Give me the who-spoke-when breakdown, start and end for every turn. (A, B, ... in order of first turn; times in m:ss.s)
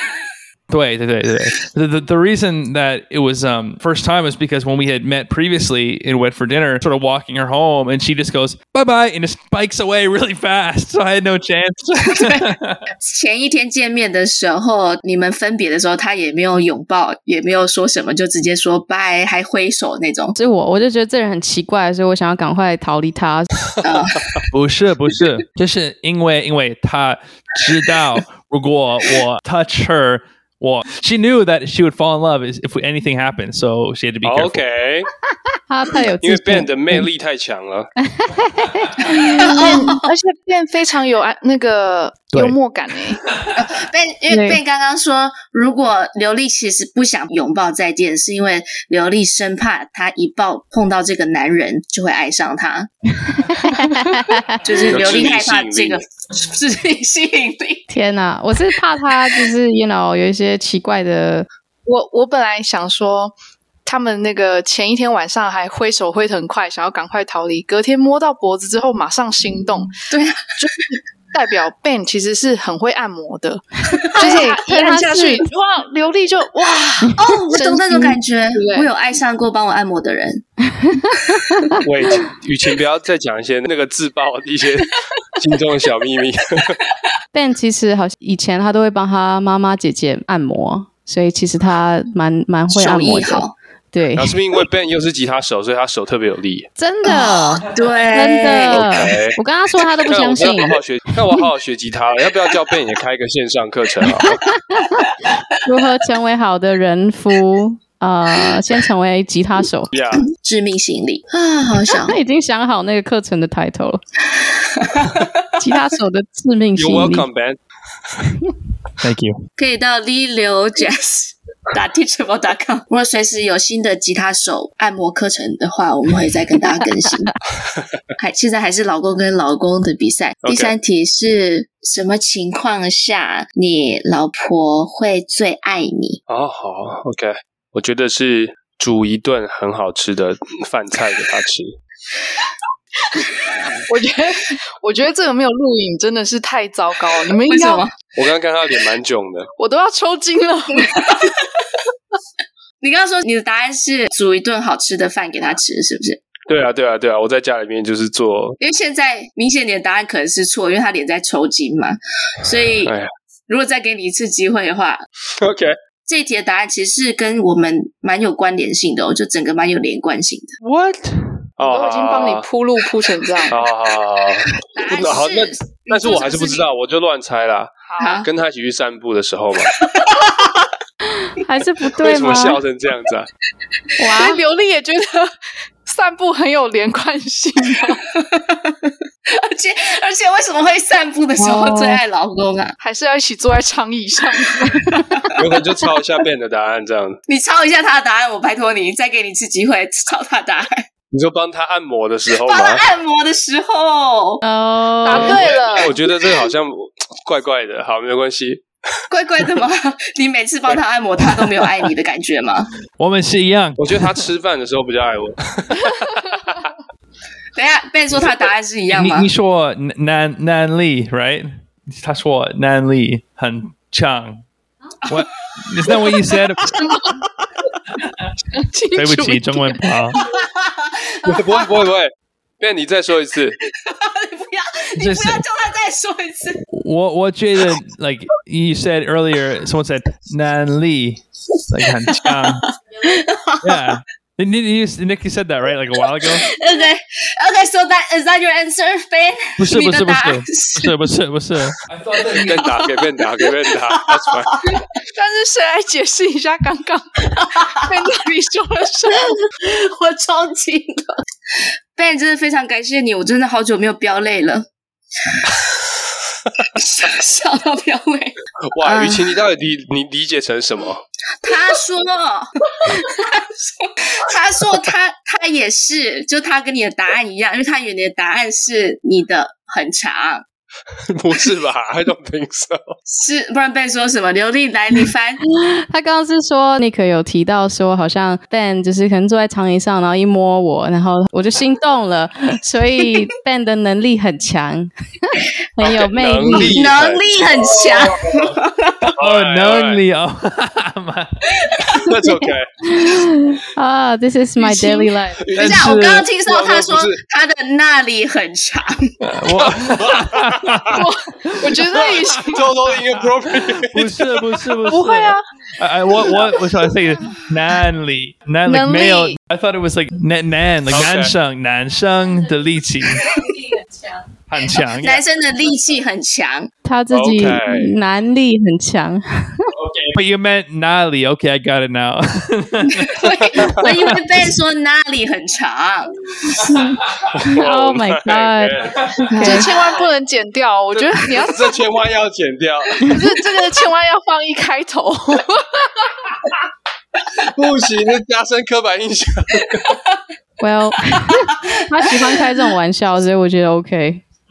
0:00.7-0:12.9 A
0:12.1-0:12.4 B
0:13.0-0:20.3 B
0:20.3-0:23.5 C
0:23.8-0:24.4 D
0:23.8-0:24.2 B
0:24.5-0:34.6 A
0:34.2-0:35.1 D
0:35.7-0:37.0 C
0:36.2-0:37.9 D
0:38.0-0:39.7 C
0:39.3-0:43.2 E
0:39.4-0:40.1 B
0:43.1-0:43.5 A
0:43.5-0:52.9 B
0:44.3-0:44.6 C
0:53.4-0:54.6 C
0:54.6-0:57.8 B
0:54.7-0:56.0 D
0:57.9-1:01.5 C
1:01.8-1:09.9 E
1:10.1-1:10.5 B
1:10.6-1:18.9 E
1:14.0-1:14.4 B
1:14.2-1:15.4 C
1:17.2-1:20.4 B
1:20.9-1:21.6 C
1:21.8-1:26.8 D
1:27.3-1:34.3 C
1:32.7-1:33.5 B
1:34.1-1:36.7 D
1:36.8-1:40.8 C
1:37.0-1:39.0 B
1:38.7-1:39.4 D
1:40.0-1:44.4 D
1:44.7-1:45.0 C
1:45.6-1:49.9 C
1:49.9-1:50.2 D
1:50.3-1:52.2 B
1:51.9-1:54.0 C
1:54.8-1:55.3 B
1:55.6-1:57.3 C
1:56.8-1:57.6 D
1:59.0-1:59.4 A
1:59.6-2:07.3 B
2:08.2-2:16.2 B
2:10.4-2:10.7 D
2:16.3-2:21.8 D
2:23.9-2:27.9 E
2:27.4-2:27.9 B
2:28.2-2:29.5 D
2:29.6-2:31.2 E
2:32.8-2:36.2 B
2:36.5-2:38.6 D
2:38.6-2:42.9 B
2:42.8-2:43.1 D
2:43.5-2:45.0 B
2:45.4-2:45.8 D
2:46.1-2:50.5 B
2:50.6-2:51.4 A
2:51.6-2:52.5 D
2:51.6-2:53.6 E
2:53.5-2:59.7 D
2:54.7-2:56.6 B
2:57.9-2:58.2 E
2:58.0-2:58.3 B
2:59.8-3:00.3 B
3:01.2-3:02.6 C
3:02.0-3:03.3 D
3:04.0-3:04.4 C
3:04.0-3:05.3 E
3:05.8-3:08.0 E
3:08.2-3:08.8 B
3:09.3-3:12.8 B
3:11.4-3:11.9 C
3:12.8-3:14.8 E
3:15.4-3:17.2 D
3:17.3-3:20.9 B
3:21.1-3:22.8 D
3:22.4-3:24.4 B
3:24.4-3:25.4 C
3:25.0-3:26.0 E
3:25.1-3:28.6 D
3:29.1-3:32.7 B
3:33.0-3:34.2 A
3:33.8-3:36.7 D
3:37.6-3:39.3 B
3:38.9-3:44.4 A
3:45.0-3:47.0 A
3:46.7-3:47.2 E
3:48.5-3:50.2 E
3:48.9-3:50.2 A
3:50.2-3:51.8 B
3:51.2-3:53.6 D
3:53.7-3:56.6 B
3:55.0-3:55.4 A
3:56.7-4:02.7 A
4:02.1-4:04.0 B
4:03.6-4:06.5 A
4:06.2-4:10.9 B
4:09.6-4:12.8 A
4:12.4-4:14.6 D
4:12.5-4:14.8 B
4:15.1-4:19.3 E
4:17.4-4:18.2 B
4:19.1-4:21.2 B
4:22.0-4:24.7 B
4:25.3-4:25.6 B
4:26.7-4:29.4 B
4:28.7-4:31.0 D
4:31.4-4:40.4 B
4:41.1-4:43.0 D
4:43.1-4:45.4 B
4:45.5-4:56.8 C
4:55.8-4:57.2 D
4:56.7-4:59.1 B
4:57.8-4:58.5 A
4:59.0-5:01.3 A
4:59.2-5:00.0 D
5:01.9-5:02.7 D
5:02.9-5:05.4 C
5:05.4-5:07.2 D
5:05.6-5:06.2 A
5:05.6-5:09.2 B
5:09.2-5:12.3 A
5:09.7-5:11.0 D
5:10.9-5:12.7 E
5:11.9-5:14.4 D
5:13.8-5:23.4 A
5:14.8-5:15.4 E
5:16.1-5:16.4 E
5:18.6-5:19.4 E
5:20.9-5:21.3 D
5:24.5-5:25.2 A
5:24.8-5:26.7 B
5:26.8-5:29.7 C
5:27.1-5:28.0 D
5:29.9-5:34.5 A
5:32.9-5:36.1 B
5:33.5-5:33.9 D
5:36.6-5:37.3 A
5:37.3-5:39.2 D
5:37.5-5:38.8 C
5:39.3-5:39.7 C
5:39.3-5:41.8 E
5:40.9-5:43.1 D
5:43.0-5:46.2 E
5:47.4-5:50.0 D
5:50.6-5:54.2 C